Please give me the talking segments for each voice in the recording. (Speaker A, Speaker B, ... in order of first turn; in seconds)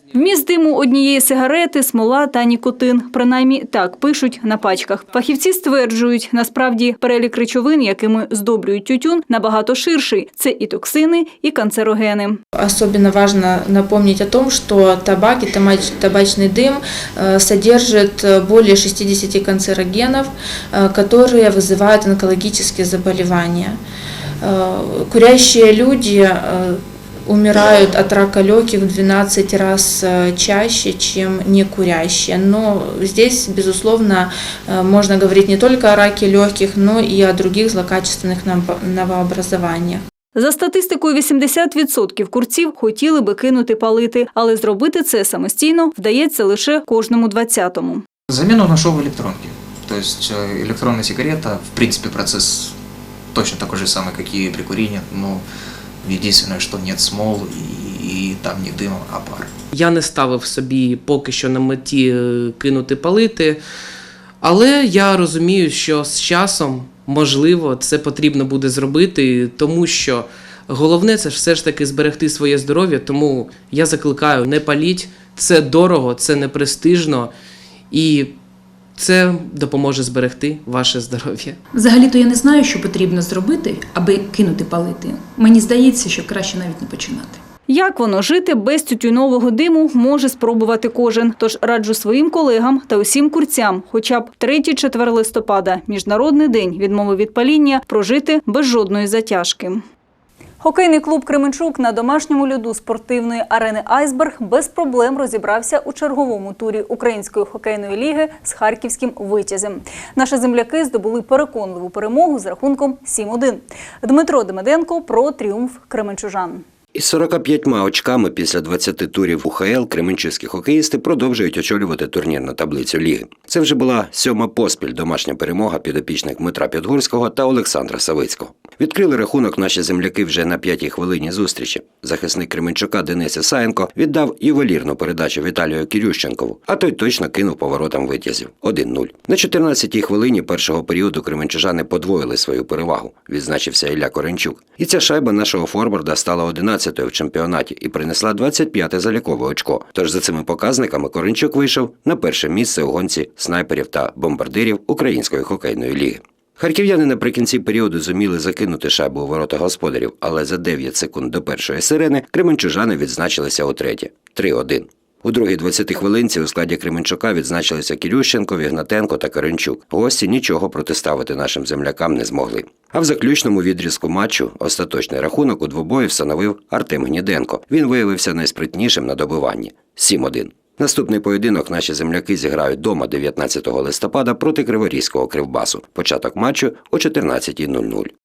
Speaker A: 0.1-12.4, 40.4-48.0, 87.7-99.8, 100.6-116.6
Speaker B: 12.6-23.8, 24.4-40.0
Speaker C: 48.3-52.7, 53.3-55.5, 56.0-59.5
Speaker D: 59.7-63.6, 64.4-77.3, 77.9-78.3, 79.0-81.6
Speaker E: 81.8-87.4
Speaker F: 117.0-188.1